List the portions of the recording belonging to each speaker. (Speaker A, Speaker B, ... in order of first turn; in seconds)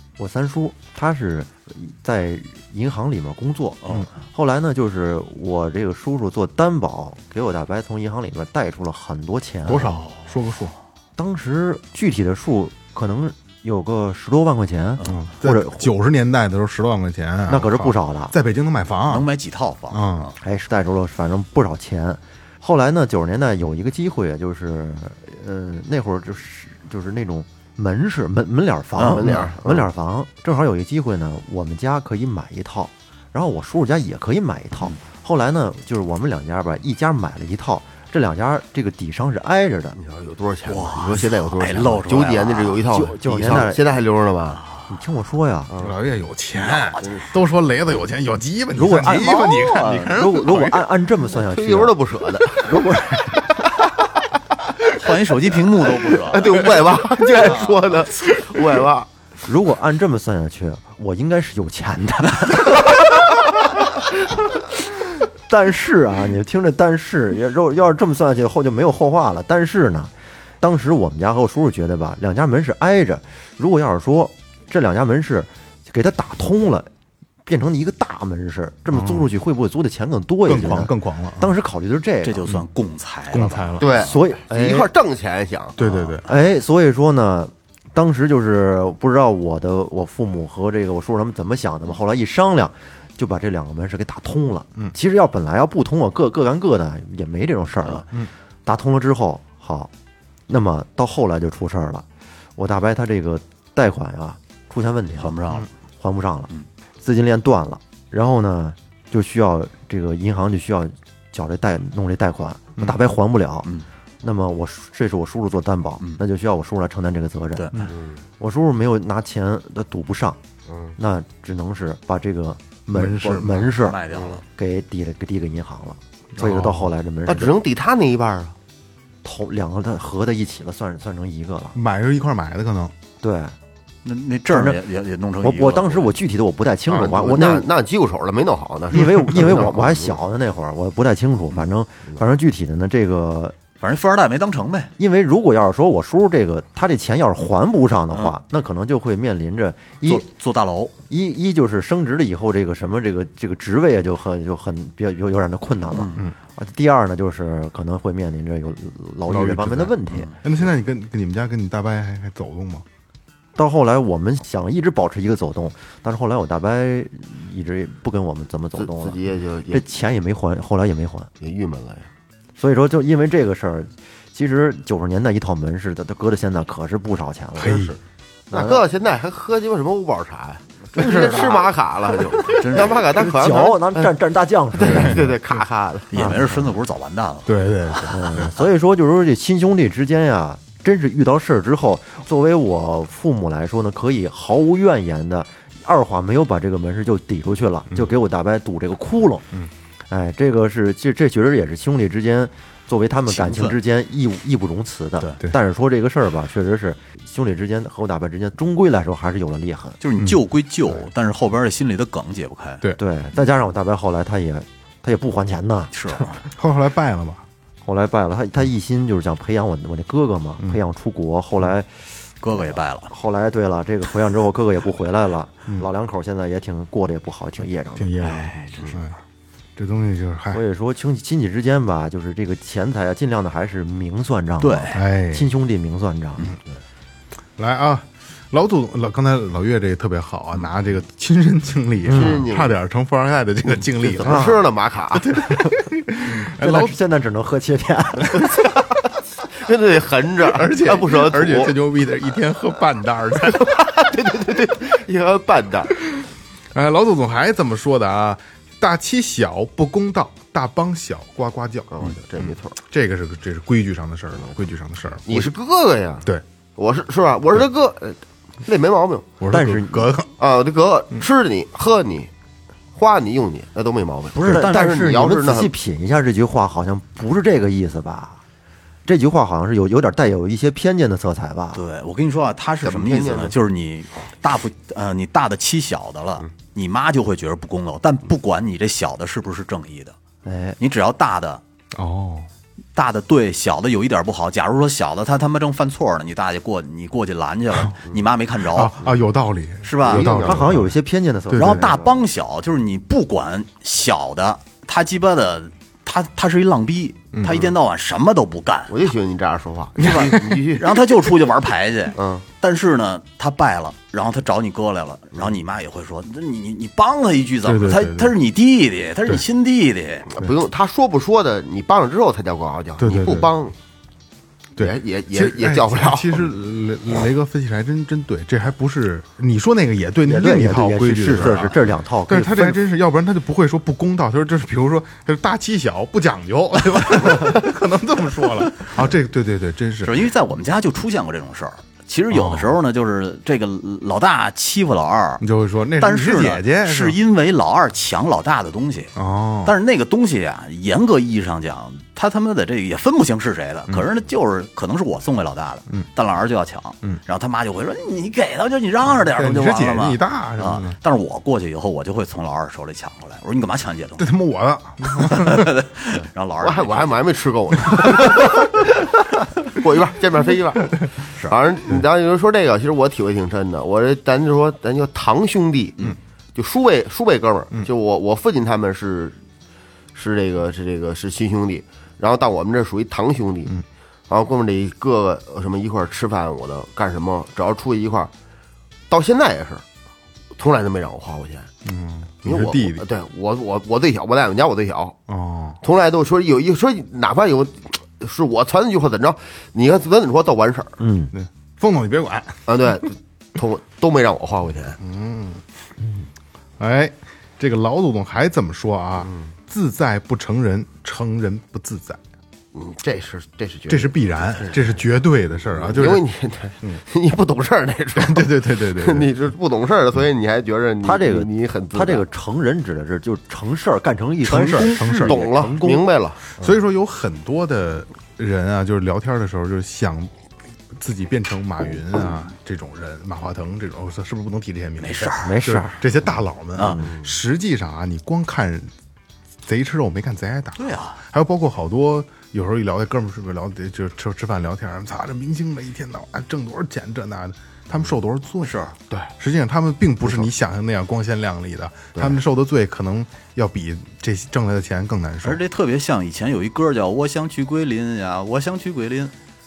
Speaker A: 0.2-10.0, 11.2-15.9, 17.5-18.3, 20.4-40.0, 42.9-43.8, 44.9-45.7, 48.8-52.0, 52.5-53.4, 59.4-63.1, 65.5-76.9, 77.5-82.5, 83.9-84.9, 86.2-98.1, 98.7-99.9, 100.5-102.0, 102.6-105.4, 106.0-117.7, 118.4-120.4, 121.0-124.0, 124.5-127.5, 129.2-131.8, 133.2-133.5, 134.5-134.8, 135.4-137.7, 138.9-143.5, 145.0-150.3, 151.1-160.3, 163.6-169.2, 169.7-171.3, 172.6-177.8, 178.5-178.8, 180.9-181.7, 183.1-185.3, 186.1-186.7, 188.1-199.5, 200.1-210.0, 213.0-215.9, 217.8-228.3, 230.5-236.5, 242.1-242.4, 244.2-244.6, 246.4-248.8, 269.5-270.1, 274.4-278.4, 279.1-281.8, 290.4-290.8, 300.2-302.2, 330.2-332.8, 401.0-401.3, 421.0-426.1, 435.4-436.0
Speaker B: 9.7-10.7, 15.0-19.3, 19.9-20.3, 45.8-50.9, 78.9-79.3, 80.5-81.5, 83.3-84.0, 85.8-86.2, 122.9-123.7, 126.3-126.9, 131.7-132.9, 159.3-162.8, 177.6-177.9, 184.8-185.5, 187.4-188.5, 216.5-217.4, 228.0-229.2, 229.8-230.6, 234.9-235.5, 237.6-244.6, 245.1-247.0, 250.4-253.8, 256.7-265.5, 269.4-270.3, 291.9-292.5, 298.6-300.9, 301.5-301.9, 307.3-307.6, 310.0-310.4, 317.6-318.3, 323.0-323.5, 324.8-340.2, 342.3-342.7, 345.4-347.2, 349.1-349.8, 359.2-361.0, 364.2-365.8, 391.8-393.0, 395.3-395.8, 401.3-402.7, 405.0-405.6, 406.8-412.2, 413.9-416.2, 418.1-419.3, 424.5-425.7, 426.6-430.3, 430.9-438.9, 439.6-455.6
Speaker C: 19.1-20.3, 29.0-29.3, 40.6-42.8, 44.5-44.8, 46.6-47.2, 49.3-50.1, 55.0-56.6, 57.4-57.9, 82.2-83.8, 105.1-105.7, 117.5-117.9, 123.7-124.4, 134.0-136.1, 143.8-144.9, 150.0-150.9, 155.9-156.2, 160.1-160.4, 182.4-183.1, 186.1-188.4, 203.3-203.8, 210.0-212.8, 215.9-216.4, 222.4-223.1, 228.2-229.0, 234.6-235.0, 274.3-275.0, 281.7-290.1, 290.8-291.6, 292.9-299.0, 299.8-300.4, 301.5-309.1, 310.0-320.3, 340.0-345.4, 346.0-349.1, 349.6-364.3, 365.0-367.2, 424.4-425.1, 435.0-435.5, 436.7-437.0, 440.8-441.2, 448.6-448.9, 455.4-459.3
Speaker D: 29.1-29.9, 40.0-44.6, 45.7-46.0, 51.3-52.8, 56.0-59.1, 83.8-85.8, 117.9-118.2, 124.1-124.4, 127.2-128.5, 136.9-140.2, 168.8-169.8, 171.4-172.1, 177.6-178.0, 178.5-184.1, 184.7-186.2, 242.1-242.8, 244.0-245.6, 249.5-251.7, 253.4-256.0, 261.9-262.8, 265.2-269.3, 270.4-272.3, 272.9-275.7, 282.8-283.6, 300.0-300.8, 308.9-311.0, 312.1-312.4, 320.3-323.7, 324.8-326.5, 366.6-369.1, 369.6-379.4, 380.1-383.8, 384.3-388.3, 389.1-389.8, 390.5-391.7, 392.4-395.2, 395.8-401.0, 402.7-405.0, 409.2-409.5, 412.7-415.0, 415.8-422.2, 425.2-426.7